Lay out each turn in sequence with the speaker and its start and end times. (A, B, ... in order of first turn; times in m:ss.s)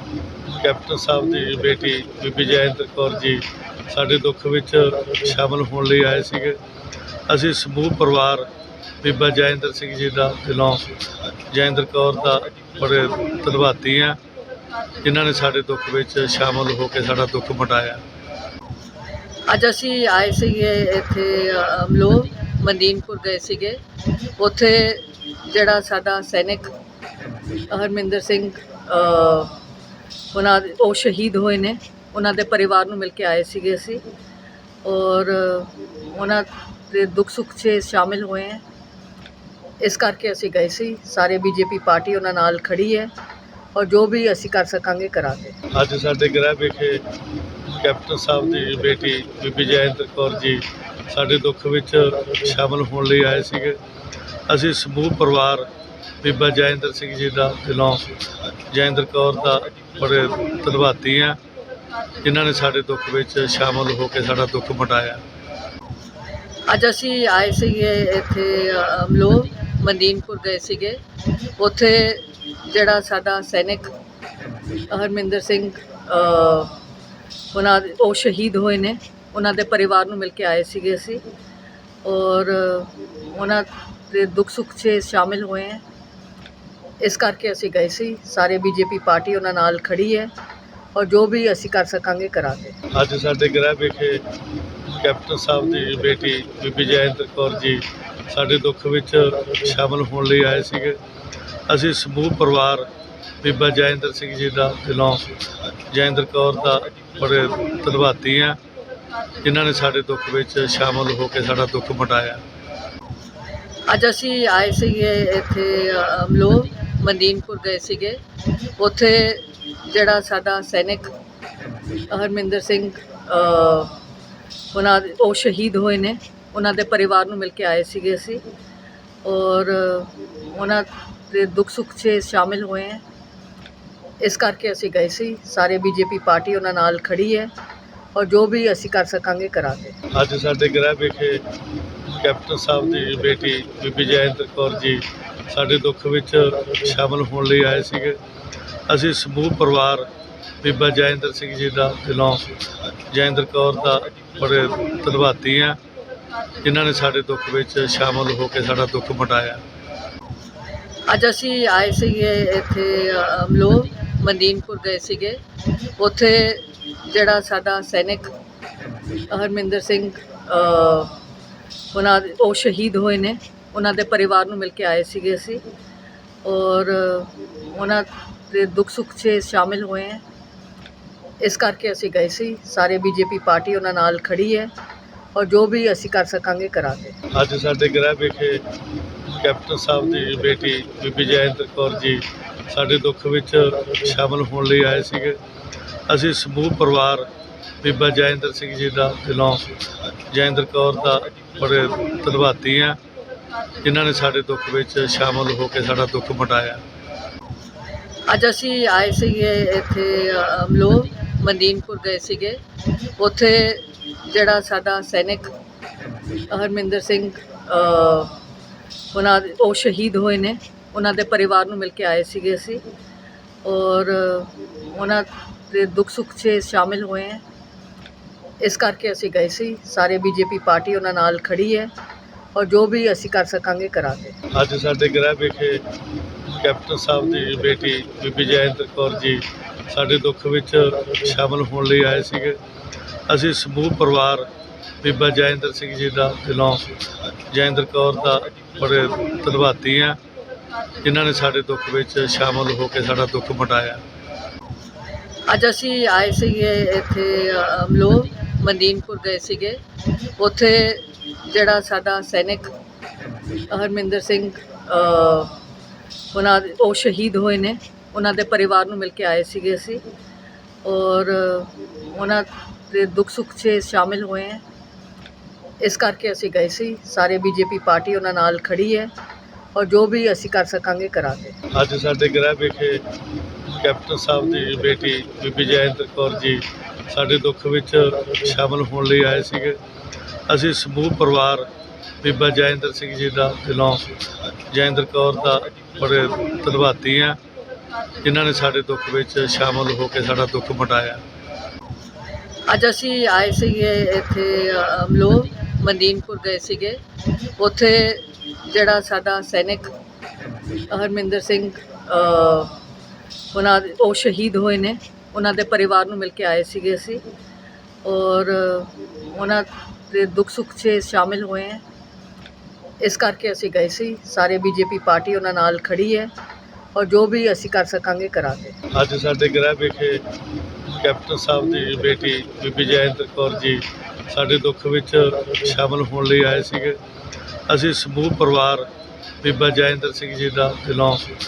0:00.4-0:06.6 A
0:07.3-0:08.5 A
0:09.0-0:10.9 A
0:11.5-0:14.2 A
0:15.0-0:18.0 A
0:19.5-0:23.8 B
0:24.4-0:26.7 B
0:27.6-0:29.6 B
0:30.3-0:34.0 B
0:34.8-0:38.6 B
0:39.8-0:43.1 B
0:43.7-0:45.5 B
0:45.7-0:47.0 A
0:47.6-0:53.8 A
0:54.5-0:55.7 A
0:56.2-0:58.1 A
0:58.7-1:01.4 A
1:02.2-1:05.2 A
1:06.7-1:11.0 B
1:11.6-1:13.9 B
1:14.8-1:16.8 B
1:17.5-1:21.2 B
1:22.0-1:25.8 B
1:27.0-1:30.3 B
1:30.9-1:32.7 B
1:32.9-1:34.2 A
1:34.8-1:41.0 A
1:41.7-1:42.9 A
1:43.4-1:45.3 A
1:45.9-1:48.6 A
1:49.4-1:52.4 A
1:53.9-1:58.2 B
1:58.8-2:01.1 B
2:02.0-2:04.0 B
2:04.7-2:08.4 B
2:09.2-2:13.0 B
2:14.2-2:17.5 B
2:18.1-2:19.9 B
2:20.1-2:21.4 A
2:22.0-2:28.2 A
2:28.9-2:30.1 A
2:30.6-2:32.5 A
2:33.1-2:35.8 A
2:36.6-2:39.6 A
2:41.1-2:45.4 B
2:46.0-2:48.3 B
2:49.2-2:51.2 B
2:51.9-2:55.6 B
2:56.4-3:00.2 B
3:01.4-3:04.7 B
3:05.3-3:07.1 B
3:07.3-3:08.6 A
3:09.2-3:15.4 A
3:16.1-3:17.3 A
3:17.8-3:19.7 A
3:20.3-3:23.0 A
3:23.8-3:26.8 A
3:28.3-3:32.6 B
3:33.2-3:35.5 B
3:36.5-3:38.4 B
3:39.1-3:42.8 B
3:43.6-3:47.4 B
3:48.6-3:51.9 B
3:52.5-3:54.3 B
3:54.5-3:55.8 A
3:56.4-4:02.6 A
4:03.3-4:04.5 A
4:05.0-4:06.9 A
4:07.5-4:10.2 A
4:11.0-4:14.0 A
4:15.5-4:19.8 B
4:20.4-4:22.7 B
4:23.6-4:25.6 B
4:26.3-4:30.0 B
4:30.8-4:34.6 B
4:35.8-4:39.1 B
4:39.7-4:41.5 B
4:41.7-4:43.0 A
4:43.6-4:49.8 A
4:50.5-4:51.7 A
4:52.2-4:54.1 A
4:54.7-4:57.4 A
4:58.2-5:01.2 A
5:02.7-5:07.0 B
5:07.6-5:09.9 B
5:10.8-5:12.8 B
5:13.5-5:17.2 B
5:18.0-5:21.8 B
5:23.0-5:26.3 B
5:26.9-5:28.7 B
5:28.9-5:30.2 A
5:30.8-5:37.0 A
5:37.7-5:38.9 A
5:39.4-5:41.3 A